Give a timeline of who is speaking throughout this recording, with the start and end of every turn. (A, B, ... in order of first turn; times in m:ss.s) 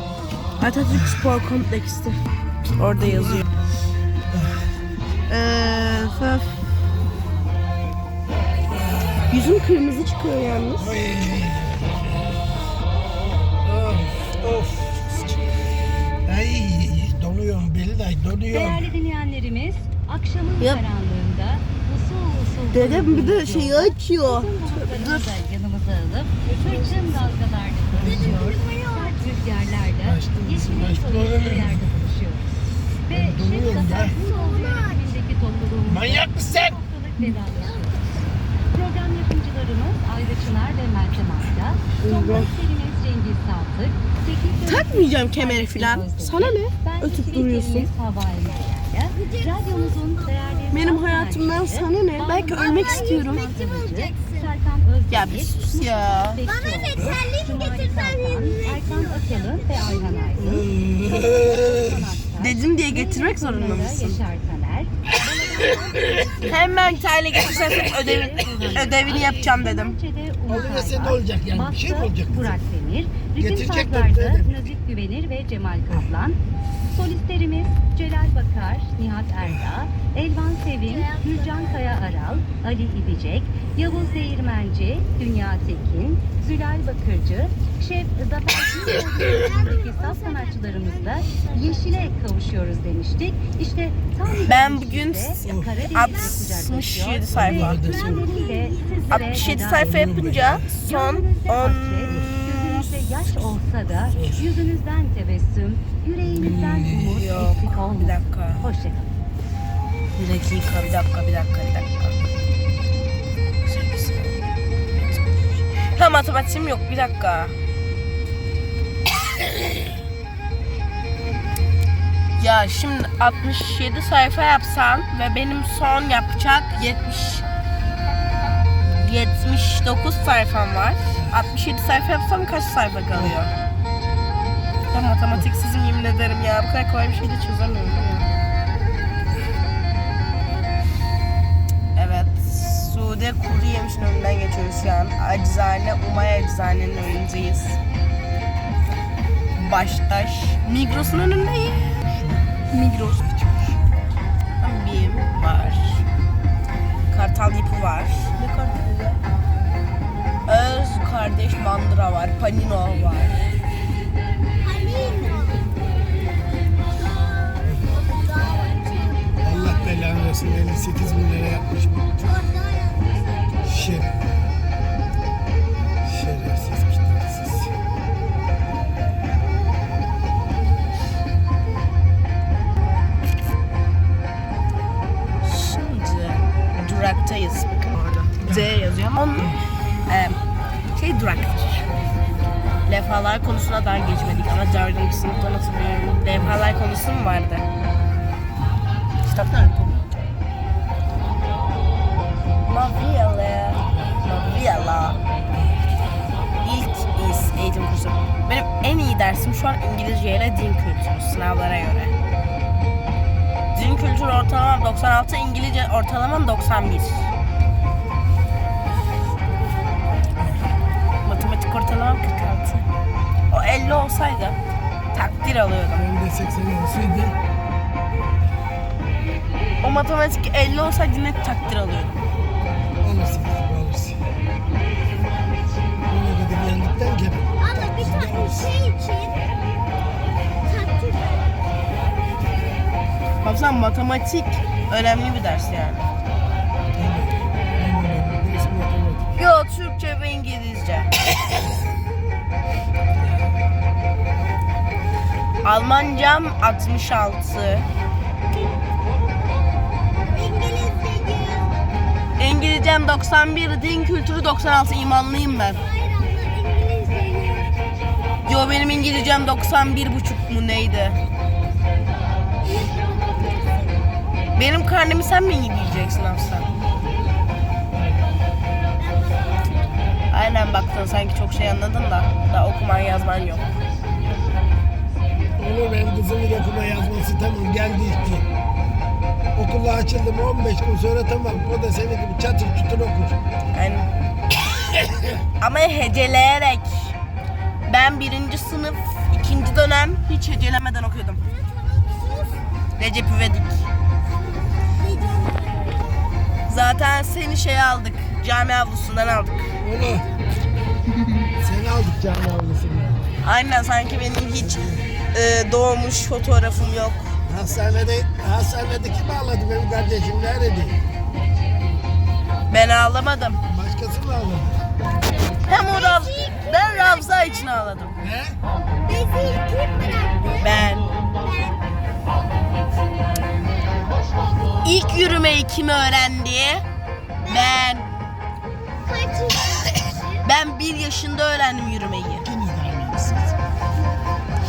0:00.6-0:02.2 A
0:02.7-0:03.5 A
0:04.3-0:04.6 B
0:05.3-0:06.6 A
0:08.7-0:09.5 B
0:09.3-0:11.0 A
0:10.8-0:12.4 B
0:13.6-0:15.2 B
0:16.2-0:18.9 B
0:18.5-0:32.4 C
0:20.6-0:20.8 A
0:22.7-0:25.3 A
0:26.4-0:27.2 A
0:27.9-0:28.6 B
0:28.0-0:29.2 D
0:30.0-0:32.0 B
0:33.1-0:34.2 B
0:33.1-0:37.9 C
0:34.1-0:35.2 D
0:35.8-0:36.8 B
0:37.5-0:38.2 D
0:38.7-1:00.6 C
0:42.0-0:42.5 A
0:44.6-0:47.9 A
0:49.1-0:50.9 D
0:50.7-0:53.5 A
0:52.5-0:54.5 D
0:55.1-0:56.4 A
0:56.4-1:00.6 D
1:00.4-1:02.1 B
1:01.7-1:16.4 C
1:02.4-1:04.2 A
1:06.0-1:06.5 B
1:06.4-1:10.0 A
1:10.5-1:12.6 B
1:13.4-1:14.7 B
1:15.9-1:16.2 B
1:16.9-1:39.9 C
1:19.4-1:19.7 B
1:20.8-1:22.4 D
1:23.9-1:24.2 D
1:28.8-1:32.2 D
1:34.4-1:37.7 A
1:35.4-1:35.9 B
1:37.3-1:38.2 B
1:37.8-1:39.6 D
1:39.1-1:42.9 A
1:39.7-1:40.8 B
1:40.8-1:49.1 C
1:44.0-1:44.6 B
1:46.2-1:47.3 B
1:46.8-1:48.7 A
1:50.2-1:52.2 A
1:53.6-1:57.5 A
2:02.4-2:07.4 A
2:08.8-2:13.6 A
2:11.2-2:11.5 B
2:14.9-2:18.2 A
2:21.9-2:27.8 A
2:29.6-2:32.0 A
2:32.0-2:32.5 B
2:32.7-2:33.2 A
2:33.1-2:33.8 B
2:34.6-2:36.0 A
2:37.1-2:39.2 A
2:40.4-2:43.4 A
2:44.6-2:45.8 D
2:47.0-2:49.7 D
2:49.4-2:52.1 B
2:52.2-2:53.7 D
2:53.6-2:54.3 B
2:56.0-2:57.7 B
3:05.4-3:09.5 A
3:08.4-3:08.8 B
3:10.1-3:10.4 A
3:10.9-3:11.9 A
3:12.9-3:17.7 A
3:16.3-3:16.6 B
3:19.3-3:20.0 B
3:22.6-3:25.2 A
3:26.6-3:32.1 A
3:33.7-3:37.3 A
3:41.2-3:42.8 A
3:43.5-3:44.6 A
3:45.1-3:46.1 A
3:46.0-3:47.4 B
3:49.8-3:52.2 A
3:53.0-3:54.3 B
3:56.1-3:58.7 B
3:57.6-3:59.4 D
4:00.6-4:01.7 D
4:03.4-4:06.1 A
4:06.9-4:09.3 B
4:09.3-4:11.1 A
4:15.6-4:17.9 A
4:20.3-4:21.8 D
4:22.4-4:25.8 A
4:25.8-4:27.8 D
4:28.4-4:31.2 A
4:32.6-4:34.1 D
4:34.6-4:36.7 A
4:39.0-4:39.7 D
4:40.3-4:43.7 A
4:45.6-4:48.4 B
4:49.5-4:53.4 B
4:53.7-4:54.1 A
4:55.6-4:57.1 A
4:57.8-5:01.4 A
5:01.5-5:02.7 D
5:03.0-5:03.9 A
5:04.7-5:06.1 D
5:06.7-5:09.6 A
5:09.8-5:10.2 B
5:10.1-5:10.5 D
5:11.6-5:13.2 B
5:13.4-5:17.3 A
5:14.6-5:15.0 B
5:17.4-5:21.0 B
5:22.7-5:23.6 A
5:23.6-5:24.8 B
5:25.6-5:28.1 A
5:25.7-5:27.3 D
5:28.2-5:28.6 B
5:29.0-5:31.8 D
5:30.6-5:31.0 A
5:34.8-5:36.8 A
5:37.4-5:37.8 D
5:37.5-5:38.1 A
5:39.0-5:40.4 D
5:40.4-5:42.4 A
5:42.4-5:43.6 B